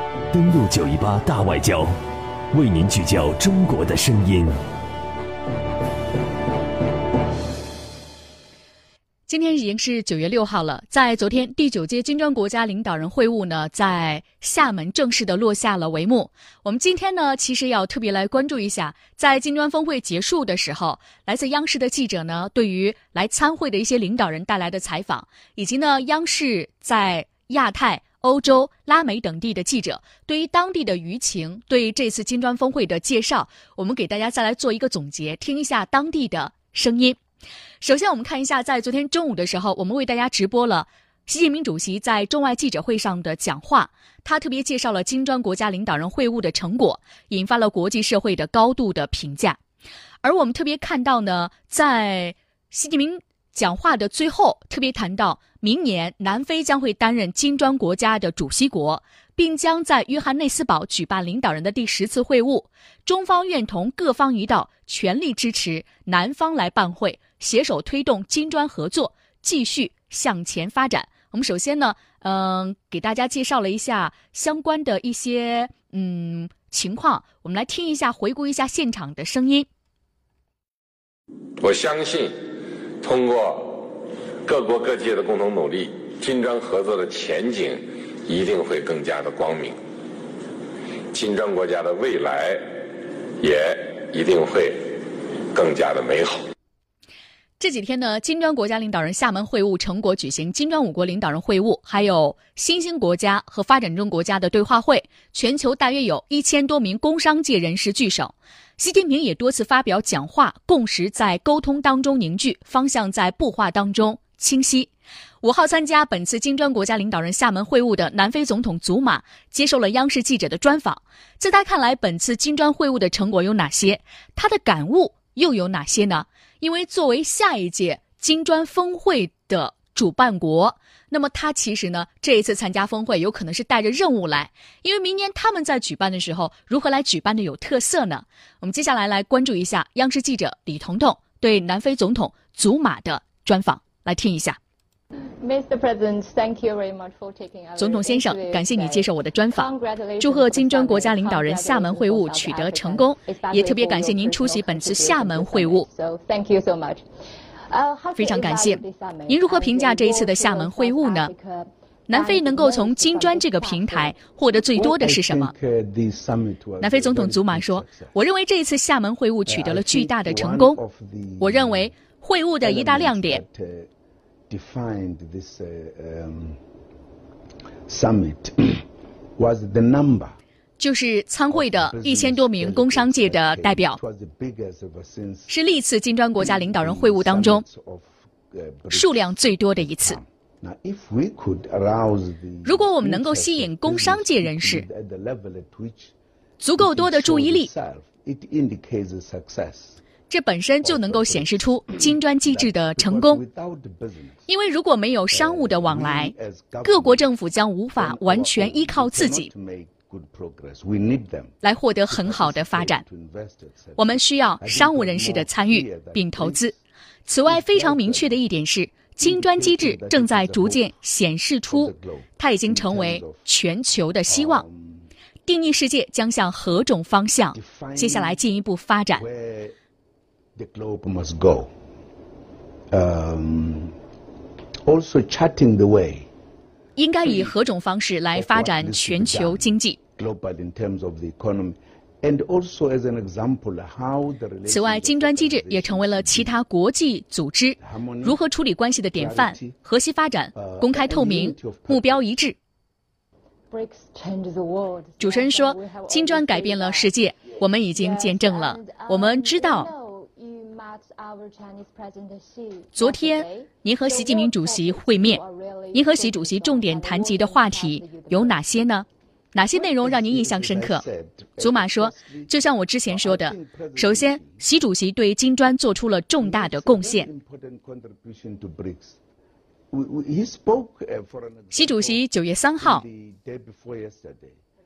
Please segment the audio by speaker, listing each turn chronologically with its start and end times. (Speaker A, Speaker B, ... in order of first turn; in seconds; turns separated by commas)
Speaker A: 0.3-1.9, Speaker A: 2.5-4.6, Speaker B: 9.3-37.2, Speaker B: 37.8-49.6, Speaker B: 50.2-79.7, Speaker C: 81.6-82.3, Speaker C: 83.0-83.6, Speaker C: 84.5-87.8, Speaker C: 88.3-89.7, Speaker C: 91.1-92.6, Speaker C: 93.4-94.7, Speaker C: 95.5-96.4, Speaker B: 97.6-144.6, Speaker D: 145.4-157.1, Speaker B: 147.8-155.9, Speaker D: 157.7-164.2, Speaker B: 158.2-161.3, Speaker B: 162.1-165.5, Speaker E: 164.8-168.2, Speaker B: 166.8-170.8, Speaker E: 169.5-171.9, Speaker B: 171.4-173.4, Speaker E: 172.6-173.9, Speaker E: 174.5-176.6, Speaker E: 177.9-178.8, Speaker E: 179.4-180.4, Speaker B: 180.8-184.0, Speaker E: 181.5-185.6, Speaker B: 185.5-187.6, Speaker E: 186.4-196.1, Speaker B: 188.9-190.2, Speaker B: 192.6-194.9, Speaker B: 196.6-197.7, Speaker E: 196.8-200.0, Speaker B: 200.3-203.4, Speaker E: 200.8-204.5, Speaker B: 204.5-209.5, Speaker E: 205.3-207.3, Speaker E: 208.0-211.6, Speaker B: 211.6-213.0, Speaker E: 212.1-216.8, Speaker B: 214.0-216.7, Speaker B: 217.3-224.7, Speaker E: 217.4-218.4, Speaker E: 219.2-220.9, Speaker E: 221.7-223.5, Speaker E: 224.3-225.1, Speaker B: 225.4-229.2, Speaker E: 227.5-228.4, Speaker E: 229.2-229.8, Speaker E: 230.6-231.7, Speaker E: 232.9-233.9, Speaker E: 234.8-236.3, Speaker B: 237.0-240.0, Speaker E: 237.2-237.5, Speaker E: 238.3-246.6, Speaker B: 244.7-252.6, Speaker E: 247.8-248.4, Speaker E: 249.1-249.8, Speaker E: 250.6-252.2, Speaker D: 253.7-257.2, Speaker B: 255.2-259.9, Speaker D: 257.9-268.6, Speaker B: 262.9-265.4, Speaker B: 265.9-271.1, Speaker E: 269.6-272.5, Speaker B: 271.6-277.3, Speaker E: 273.1-274.6, Speaker E: 276.4-279.2, Speaker E: 279.9-282.2, Speaker B: 281.7-283.0, Speaker E: 282.8-284.6